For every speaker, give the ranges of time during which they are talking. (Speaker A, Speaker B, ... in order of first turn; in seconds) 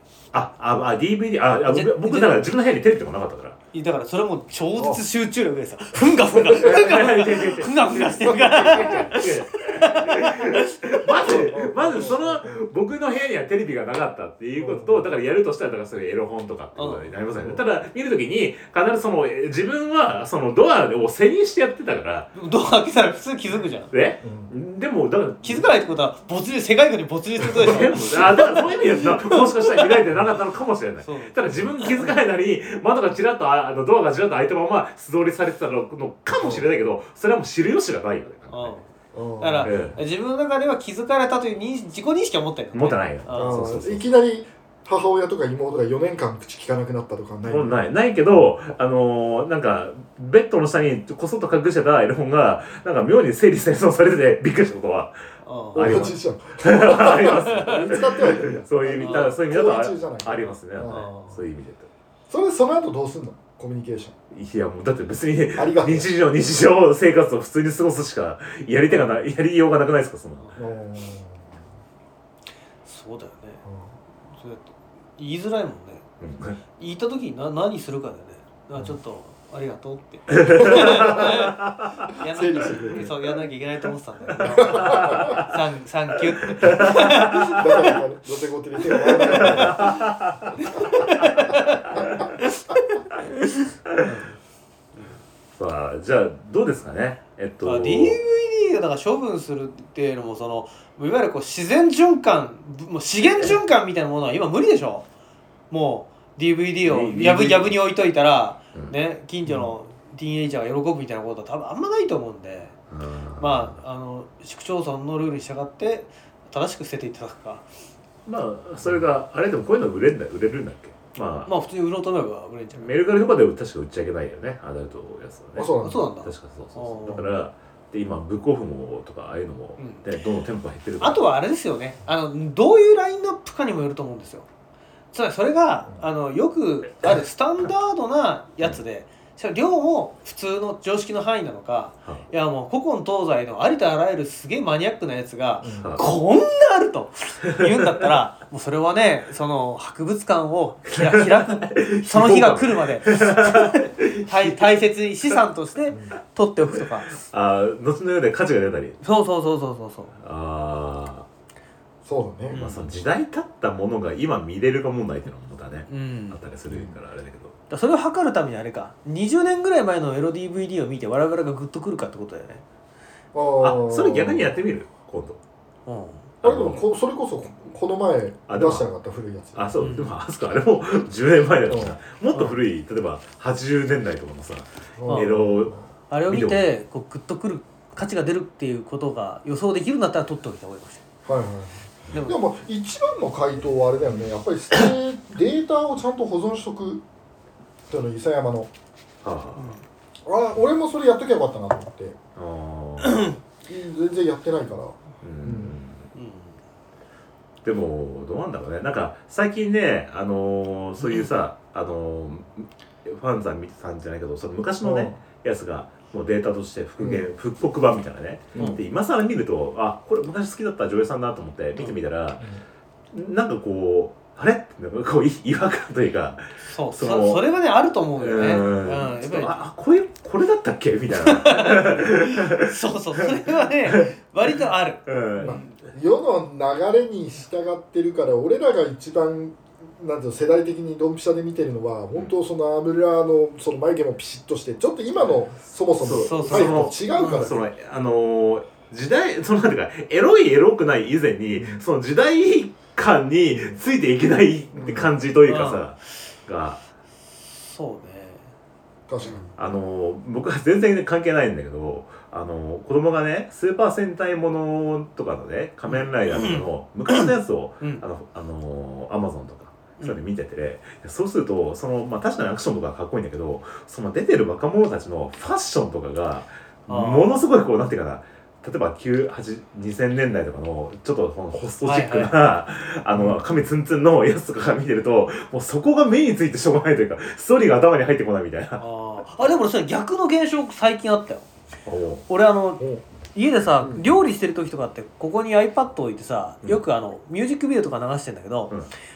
Speaker A: 0.3-3.6, 6.5-22.3, 23.9-25.7, 27.4-38.8, 39.6-40.0, 42.7-44.0, 47.5-55.1, 55.7-61.9, 64.3-70.5, 76.2-76.6, 80.4-81.9, 84.7-85.5, 86.6-87.6, 89.3-90.5, 95.5-98.2, 106.8-107.7, 112.9-113.7, 118.2-121.5, 122.7-125.7, 126.2-131.2, 145.8-146.0, 151.0-154.8, 157.1-159.0, 160.2-161.3, 162.5-167.5, 173.6-175.4, 176.4-176.8, 178.5-178.8, 179.5-185.7, 186.2-186.7, 199.2-199.8, 202.3-203.3, 205.2-206.1, 207.6-222.4, 223.1-227.4, 228.2-234.1, 235.1-235.6, 246.0-256.8, 259.6-288.8, 291.9-292.2
Speaker B: 1.7-2.5, 3.7-11.5, 16.8-17.1, 22.3-23.9, 25.4-30.1, 31.0-32.1, 38.5-38.9, 39.4-43.7, 55.4-56.1, 57.4-57.9, 59.0-59.3, 60.9-61.4, 72.8-73.6, 74.3-76.0, 76.8-87.9, 89.1-89.9, 90.6-94.3, 97.6-105.0, 105.7-112.7, 113.4-117.7, 121.5-122.9, 125.8-127.2, 129.8-130.0, 131.0-134.5, 135.1-157.1, 159.0-160.1, 162.5-162.9, 165.9-166.4, 167.7-172.6, 175.8-176.3, 179.8-180.1, 182.3-182.6, 185.1-185.3, 186.1-191.0, 192.1-192.4, 199.6-199.8, 203.0-203.4, 206.1-206.6, 211.0-211.3, 226.6-229.6, 231.2-235.7, 246.2-247.5, 255.4-255.8, 257.4-258.5, 259.2-259.5, 265.9-268.0, 276.9-277.4, 281.8-282.3, 288.8-291.5, 292.3-298.7
Speaker C: 4.8-5.0, 6.5-7.1, 8.3-8.6, 11.2-12.6, 14.6-15.1, 24.2-24.5, 36.4-36.7, 39.1-39.9, 43.3-47.8, 55.7-61.1, 62.3-64.1, 65.5-66.1, 70.5-71.5, 73.7-73.9, 80.6-81.3, 82.3-83.1, 84.4-85.4, 86.9-89.9, 90.7-92.0, 125.5-126.0, 145.6-145.9, 155.9-156.2, 162.0-162.6, 173.3-174.5, 176.4-179.8, 181.7-181.9, 185.0-185.8, 191.2-197.0, 197.9-198.7, 200.2-202.2, 203.6-205.7, 214.8-215.2, 217.0-217.2, 235.4-247.6, 251.5-251.8, 253.5-253.8, 254.7-255.1, 259.1-259.4, 283.1-283.4, 292.8-293.0, 293.8-294.1